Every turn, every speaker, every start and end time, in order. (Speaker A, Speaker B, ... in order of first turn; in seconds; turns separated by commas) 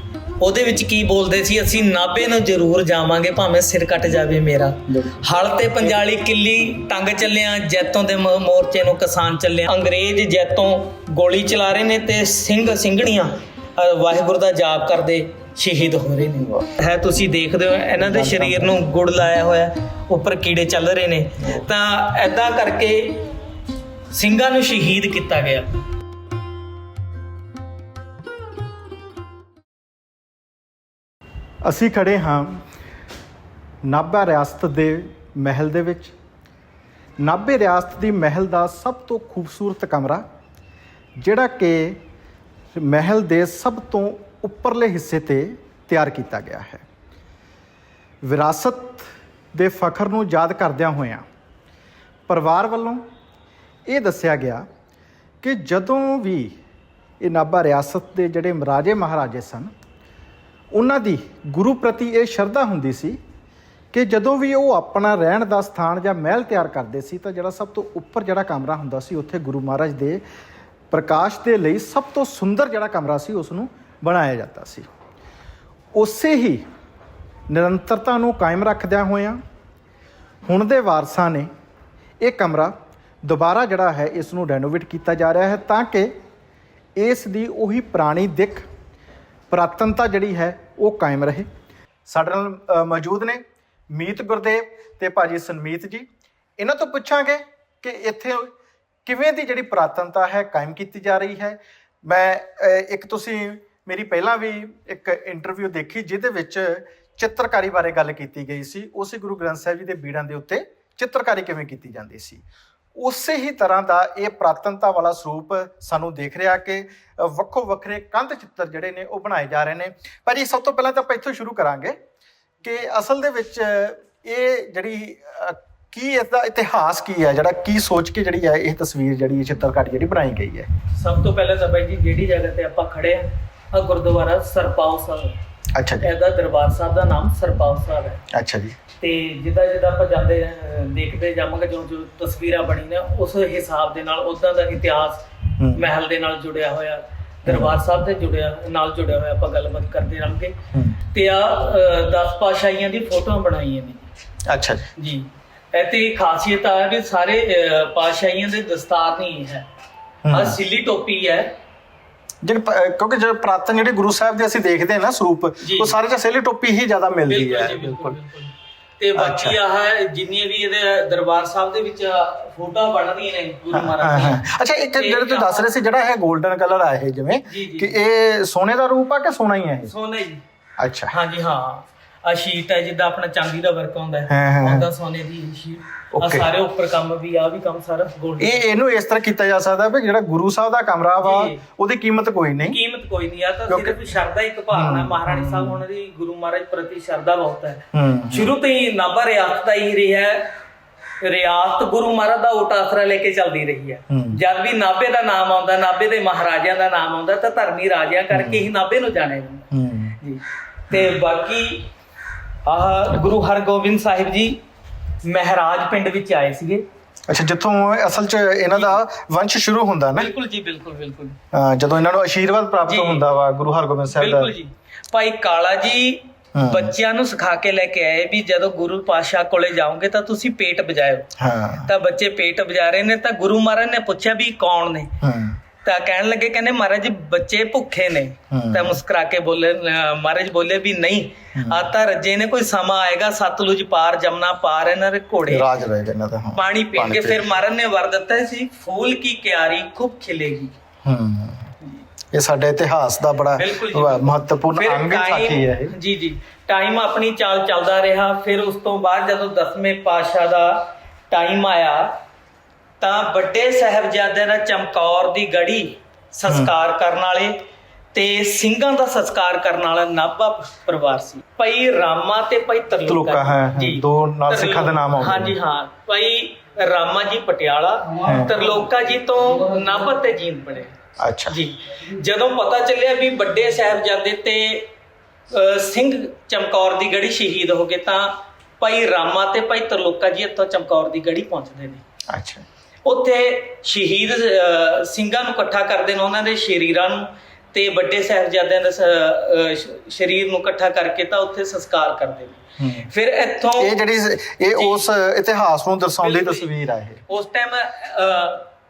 Speaker A: 0.4-23.2, Speaker B: 4.9-6.0, Speaker B: 18.0-18.9, Speaker B: 21.4-21.7, Speaker A: 24.1-25.7, Speaker B: 31.6-32.6, Speaker B: 33.9-36.1, Speaker B: 37.2-40.2, Speaker B: 41.2-42.0, Speaker B: 42.7-46.8, Speaker B: 48.2-51.2, Speaker B: 52.3-53.0, Speaker B: 53.9-54.6, Speaker B: 55.4-56.5, Speaker B: 57.2-59.7, Speaker B: 60.7-63.2, Speaker B: 63.9-70.2, Speaker B: 70.9-74.9, Speaker B: 75.9-76.6, Speaker B: 77.5-79.4, Speaker B: 80.5-81.5, Speaker B: 82.2-86.1, Speaker B: 87.0-88.7, Speaker B: 89.5-91.5, Speaker B: 92.0-96.1, Speaker B: 96.6-98.5, Speaker B: 99.0-112.4, Speaker B: 112.9-121.9, Speaker B: 122.6-130.7, Speaker A: 131.0-135.3, Speaker B: 135.7-136.1, Speaker A: 136.0-138.2, Speaker B: 138.3-138.8, Speaker A: 139.0-150.5, Speaker B: 145.6-145.9, Speaker B: 147.5-147.8, Speaker B: 150.7-151.0, Speaker A: 151.1-154.1, Speaker B: 154.5-154.9, Speaker A: 155.0-159.7, Speaker B: 160.2-160.6, Speaker A: 160.3-161.5, Speaker B: 162.4-168.2, Speaker A: 165.6-165.9, Speaker A: 167.3-174.4, Speaker B: 169.1-169.6, Speaker B: 173.7-179.9, Speaker A: 175.0-175.7, Speaker A: 177.5-177.9, Speaker A: 179.9-180.4, Speaker B: 180.8-181.1, Speaker A: 181.1-188.6, Speaker B: 184.3-184.9, Speaker B: 186.1-186.5, Speaker B: 188.4-192.8, Speaker A: 191.2-191.6, Speaker A: 192.7-200.5, Speaker B: 193.7-194.1, Speaker B: 194.7-195.8, Speaker B: 197.9-198.5, Speaker A: 201.2-209.7, Speaker B: 204.1-204.4, Speaker B: 208.3-208.7, Speaker B: 209.7-210.2, Speaker A: 210.2-211.9, Speaker A: 212.7-214.6, Speaker A: 215.2-216.8, Speaker B: 217.3-220.3, Speaker A: 218.7-219.0, Speaker A: 220.2-221.3, Speaker B: 221.5-224.5, Speaker A: 222.8-223.3, Speaker A: 224.1-231.3, Speaker B: 226.5-226.9, Speaker B: 231.4-231.9, Speaker A: 231.8-235.1, Speaker B: 235.2-235.6, Speaker A: 235.8-245.7, Speaker B: 238.5-239.0, Speaker B: 241.5-241.9, Speaker B: 245.5-247.5, Speaker A: 246.6-250.7, Speaker B: 251.0-251.7, Speaker B: 252.3-255.9, Speaker A: 253.6-262.1, Speaker A: 263.0-267.6, Speaker B: 266.5-266.7, Speaker A: 268.1-280.9, Speaker B: 273.1-275.6, Speaker B: 278.2-278.6, Speaker B: 281.2-281.6, Speaker A: 281.5-284.9, Speaker A: 285.5-292.0, Speaker B: 292.3-292.6, Speaker A: 293.0-303.9, Speaker B: 302.8-303.1, Speaker B: 303.8-307.2, Speaker A: 304.7-305.0, Speaker A: 306.2-306.7, Speaker A: 307.3-308.7